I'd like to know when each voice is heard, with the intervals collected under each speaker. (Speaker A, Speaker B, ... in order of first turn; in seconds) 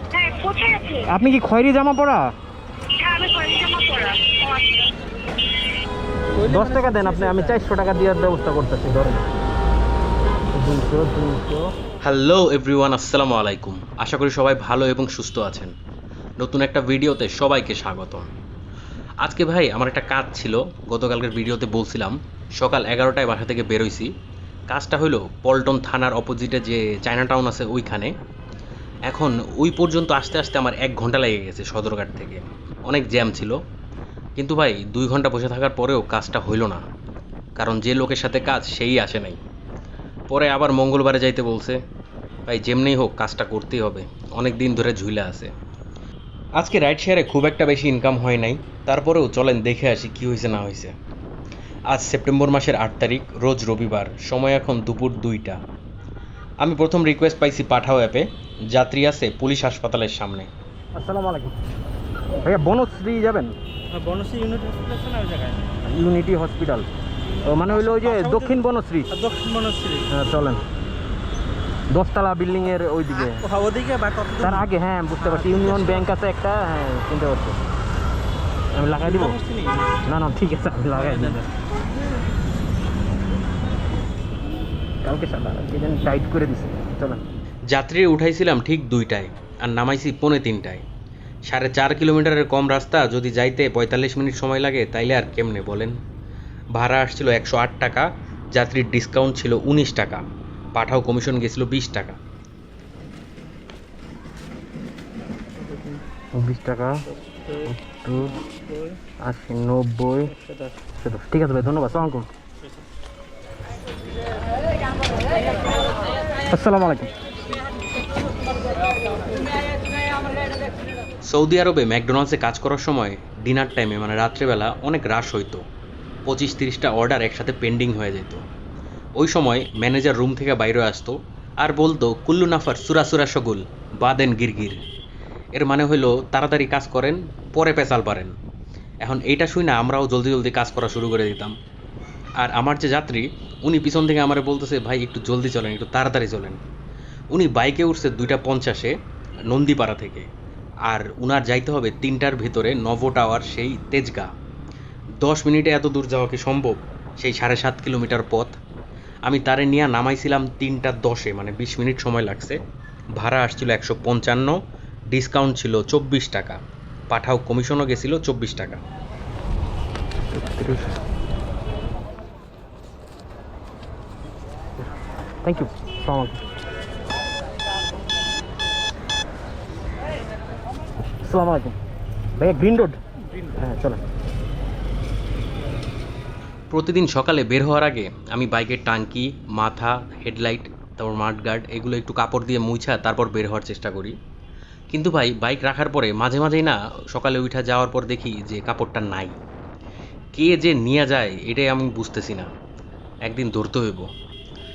Speaker A: 0.1-1.0, 3.0-4.9
Speaker B: 1.0-2.3, 6.4-9.2, 10.5-11.7, 61.0-61.5, 62.4-63.5, 65.8-66.9, 67.4-69.1, 70.1-70.6, 71.9-73.5, 74.4-77.6, 78.7-79.4, 80.0-81.5, 85.0-87.2, 106.3-107.0, 107.6-108.4, 109.2-110.4, 110.9-112.3, 116.5-117.1, 170.3-170.9, 175.4-176.4, 181.2-181.8, 182.4-183.0, 183.5-184.0
Speaker C: 6.3-7.5, 63.9-65.6, 67.3-68.6, 69.1-70.1, 73.2-74.6, 75.2-76.0, 79.0-80.0, 80.9-81.4, 105.7-106.0, 107.2-107.7, 108.5-109.0
Speaker D: 12.0-15.7, 16.4-18.3, 19.2-24.1, 24.7-28.1, 29.1-33.6, 34.4-36.8, 37.6-39.4, 40.3-41.8, 42.5-45.5, 46.6-50.9, 51.9-55.6, 56.6-60.5, 87.7-90.8, 91.5-96.0, 96.7-100.2, 100.7-102.2, 121.2-125.6, 126.2-128.4, 129.2-134.8, 135.5-138.3, 139.0-141.5, 142.4-146.6, 147.3-148.9, 149.5-150.3, 150.9-154.3, 155.2-158.5, 159.2-162.6, 163.2-164.6, 165.1-166.6, 167.1-168.8, 186.7-194.1, 194.9-199.3, 200.3-202.5, 203.2-204.1